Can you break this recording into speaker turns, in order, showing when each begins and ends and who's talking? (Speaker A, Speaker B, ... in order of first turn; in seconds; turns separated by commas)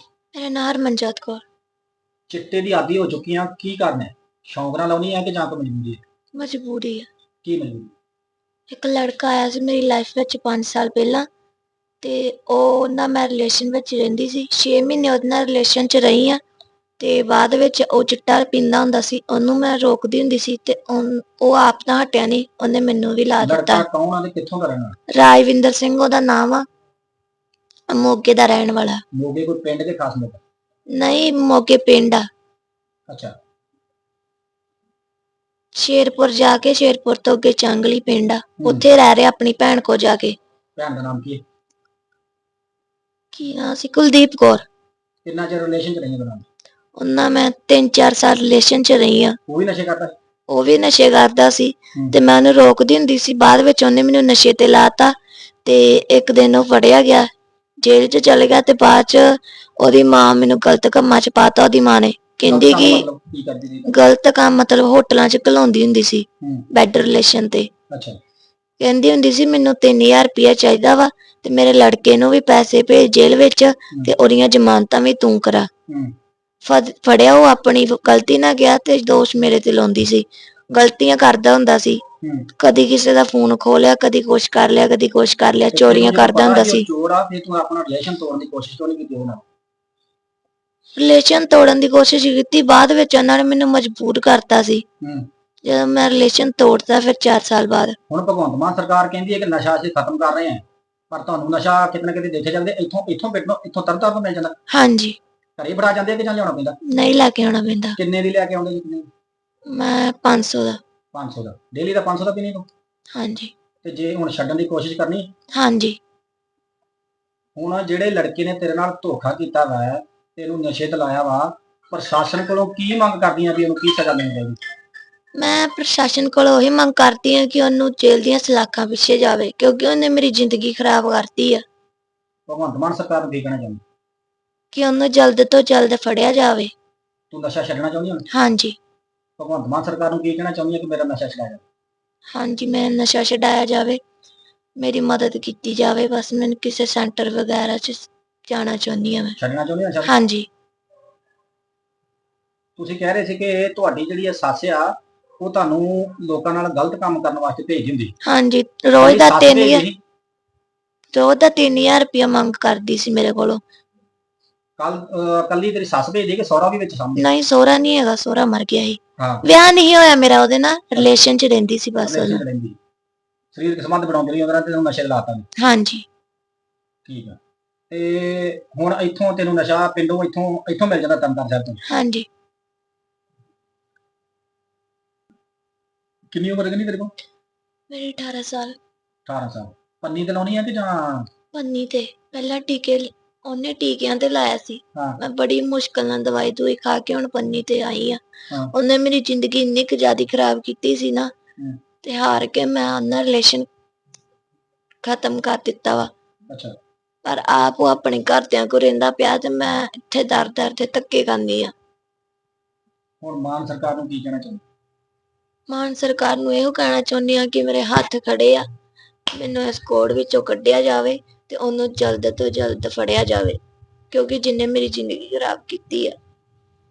Speaker A: 0.3-1.4, Speaker B: 2.3-6.0, Speaker A: 6.3-7.1, Speaker B: 7.4-7.9, Speaker A: 8.7-11.3, Speaker A: 12.0-16.4, Speaker A: 17.0-23.8, Speaker B: 23.4-25.0, Speaker A: 25.1-26.6, Speaker A: 27.9-29.0, Speaker B: 29.1-30.4, Speaker A: 30.9-32.2, Speaker B: 33.1-33.3, Speaker A: 35.8-40.4, Speaker B: 38.6-38.9, Speaker B: 40.8-41.4, Speaker A: 43.3-44.6, Speaker B: 45.2-46.5, Speaker A: 47.0-49.4, Speaker B: 49.5-50.1, Speaker A: 50.5-55.1, Speaker A: 55.6-57.3, Speaker A: 57.8-63.1, Speaker B: 62.5-64.0, Speaker A: 63.9-67.7, Speaker B: 66.4-66.7, Speaker B: 67.9-68.2, Speaker A: 68.8-75.7, Speaker B: 75.9-76.1, Speaker A: 76.6-82.0, Speaker B: 82.2-82.5, Speaker A: 82.6-86.9, Speaker B: 85.7-89.4, Speaker A: 91.0-94.8, Speaker B: 95.0-95.3, Speaker A: 95.6-98.0, Speaker B: 98.1-104.6, Speaker A: 104.7-105.2, Speaker B: 105.6-106.8, Speaker A: 106.8-108.0, Speaker B: 108.0-109.1, Speaker A: 109.7-110.8, Speaker B: 111.1-112.7, Speaker A: 113.1-113.5, Speaker B: 113.8-115.3, Speaker A: 115.5-116.0, Speaker B: 117.6-124.6, Speaker A: 125.4-131.6, Speaker B: 132.5-133.8, Speaker A: 134.7-136.7, Speaker B: 137.3-138.3, Speaker A: 138.3-138.8, Speaker B: 139.4-141.6, Speaker A: 142.3-144.0, Speaker A: 144.8-149.4, Speaker B: 149.4-150.1, Speaker A: 150.1-150.5, Speaker B: 152.8-158.1, Speaker A: 158.2-159.8, Speaker B: 159.0-160.0, Speaker A: 161.1-163.6, Speaker B: 164.8-167.3, Speaker A: 167.2-172.4, Speaker B: 169.2-169.5, Speaker B: 172.0-172.8, Speaker B: 173.5-175.5, Speaker A: 175.6-176.1, Speaker B: 177.1-177.4, Speaker B: 177.9-181.8, Speaker A: 181.9-182.3, Speaker B: 186.3-187.1, Speaker A: 187.9-188.8, Speaker B: 189.3-191.3, Speaker A: 191.5-198.2, Speaker A: 198.7-201.3, Speaker A: 202.0-203.7, Speaker A: 205.0-206.1, Speaker B: 206.5-206.8, Speaker A: 207.2-211.7, Speaker B: 213.2-214.6, Speaker A: 215.7-218.7, Speaker A: 219.3-226.2